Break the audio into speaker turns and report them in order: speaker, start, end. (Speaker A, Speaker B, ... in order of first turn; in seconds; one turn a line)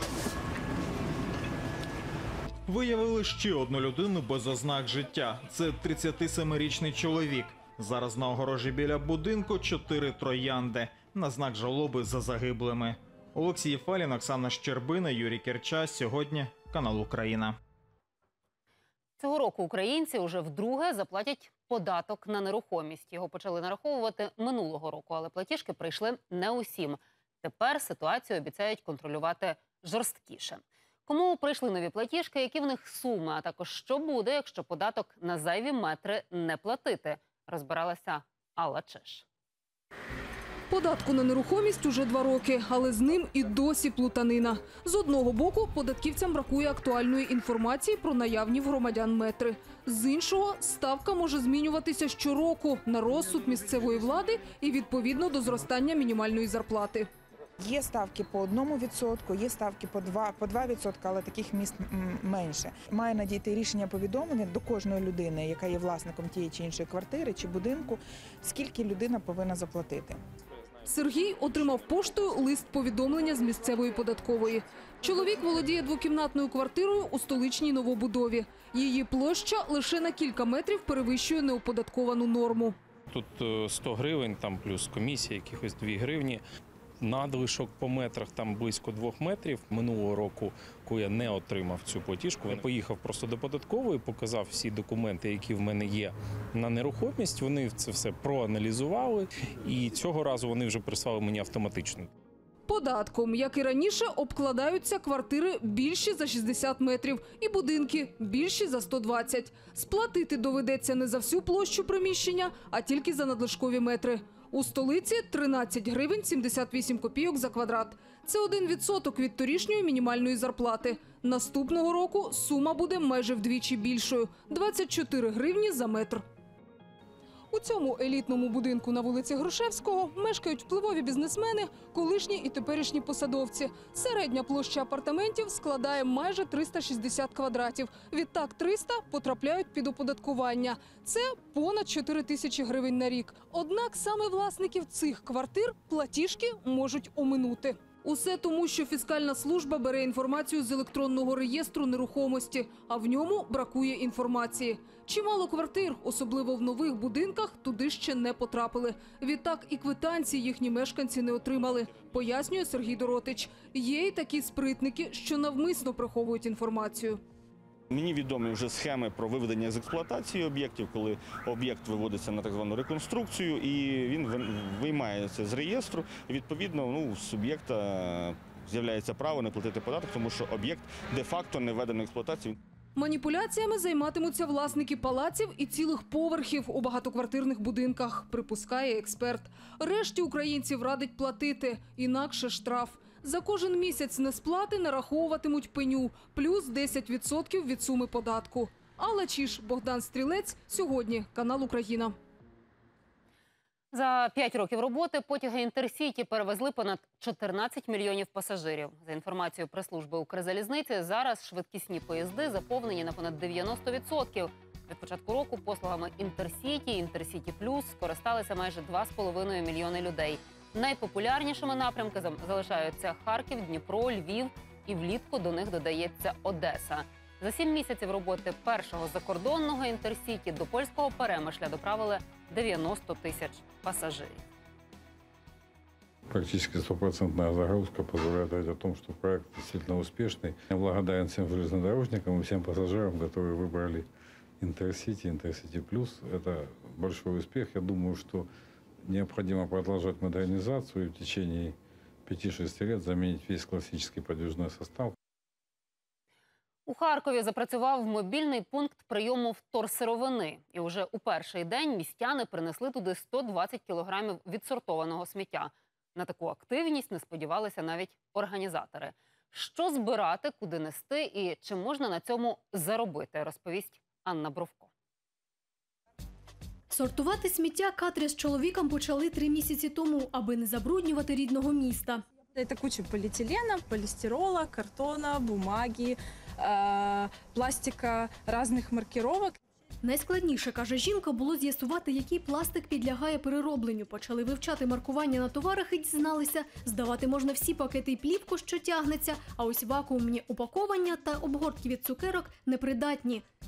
Speaker A: 2.7-17.6
Speaker B: 19.2-39.2
Speaker C: 40.7-57.1
Speaker D: 57.6-70.2
Speaker C: 70.9-82.8
Speaker E: 83.1-86.4
Speaker E: 87.0-102.1
Speaker C: 102.7-126.2
Speaker C: 127.5-167.2
Speaker F: 167.9-182.5
Speaker C: 183.0-202.2
Speaker B: 203.9-234.4
Speaker G: 236.3-244.1
Speaker G: 244.6-248.5
Speaker G: 249.0-255.1
Speaker B: 256.9-274.9
Speaker H: 276.9-282.2
Speaker I: 282.6-289.6
Speaker H: 290.0-303.5